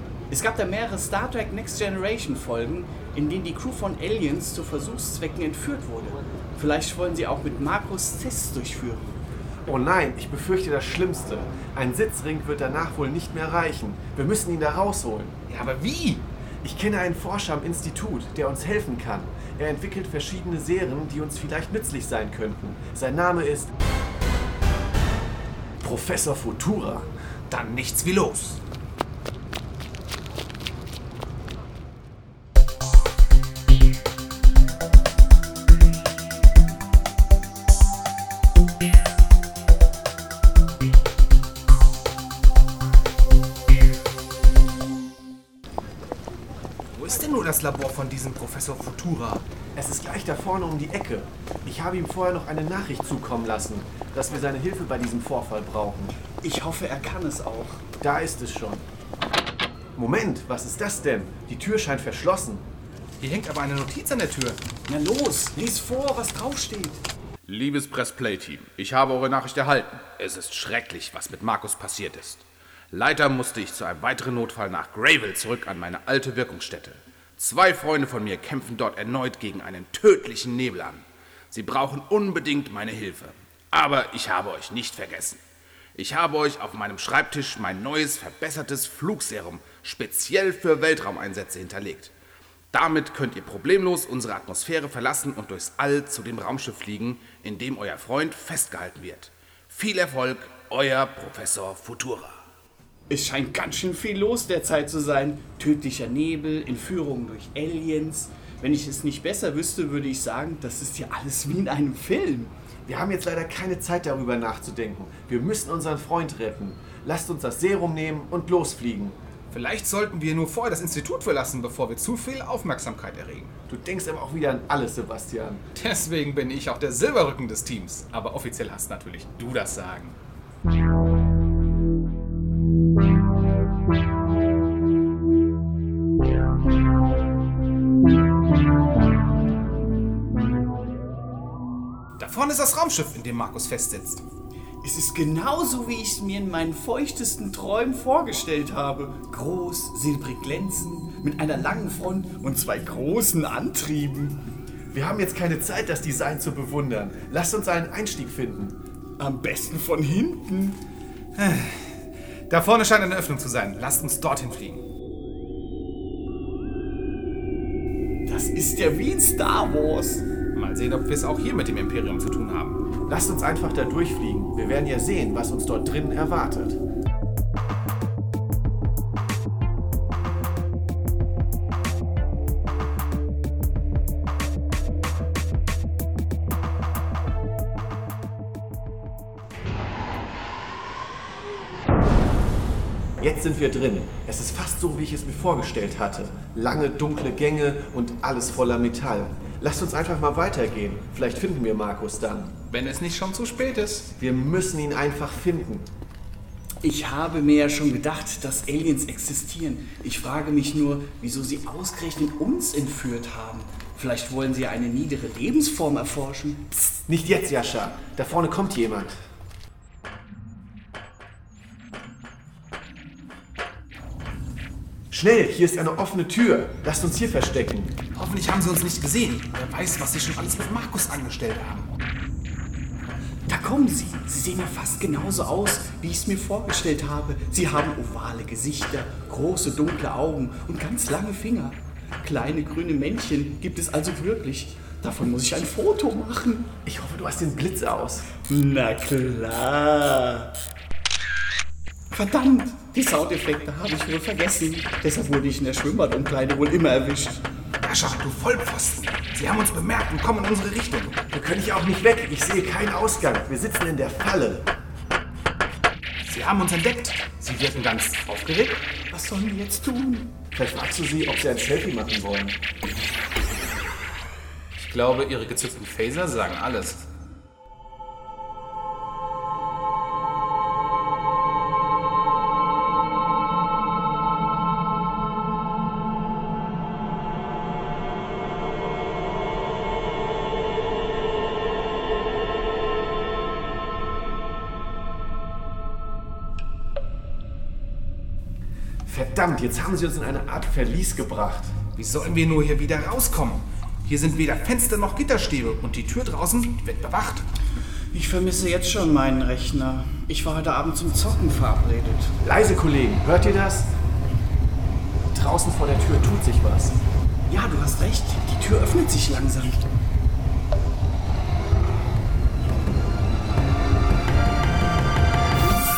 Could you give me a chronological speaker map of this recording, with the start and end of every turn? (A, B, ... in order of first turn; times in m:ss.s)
0:00.3-0:09.1 A
0:09.7-0:15.3 B
0:15.5-0:16.2 C
0:16.6-0:23.7 B
0:25.8-0:27.1 B
0:27.5-0:28.6 C
0:46.9-0:49.4 C
0:49.7-0:56.2 B
0:56.4-0:57.8 A
0:58.0-0:58.8 B
1:00.0-1:02.6 B
1:03.2-1:04.6 C
1:04.9-1:07.0 A
1:07.4-1:25.4 C
1:25.9-1:32.1 C
1:32.7-1:42.4 C
1:43.1-1:52.5 A
1:52.8-1:59.2 B
1:59.5-2:03.5 C
2:03.7-2:05.6 B
2:05.7-2:10.2 C
2:22.2-2:24.2 C
2:24.8-2:34.4 A
2:34.9-2:38.8 B
2:39.2-2:40.8 A
2:41.3-2:44.8 C
2:48.2-2:50.2 A
2:50.5-2:52.8 C
2:53.1-2:56.8 B
3:13.2-3:22.6 B
3:22.7-3:24.1 C
3:24.2-3:25.9 B
3:26.8-3:37.0 A
3:37.1-3:39.2 B
3:45.1-3:47.9 B
3:48.1-3:51.9 C
3:53.5-4:06.7 A
4:06.8-4:08.3 B
4:08.5-4:10.5 A
4:12.1-4:17.4 A
4:17.8-4:21.2 C
4:21.3-4:24.7 B
4:26.2-4:28.8 C
4:29.1-4:30.3 A
4:30.5-4:32.6 B
4:34.8-4:37.1 C
4:59.0-5:01.8 B
5:02.0-5:07.4 C
5:08.1-5:12.4 A
5:12.4-5:13.9 B
5:15.3-5:17.0 B
5:17.5-5:19.8 A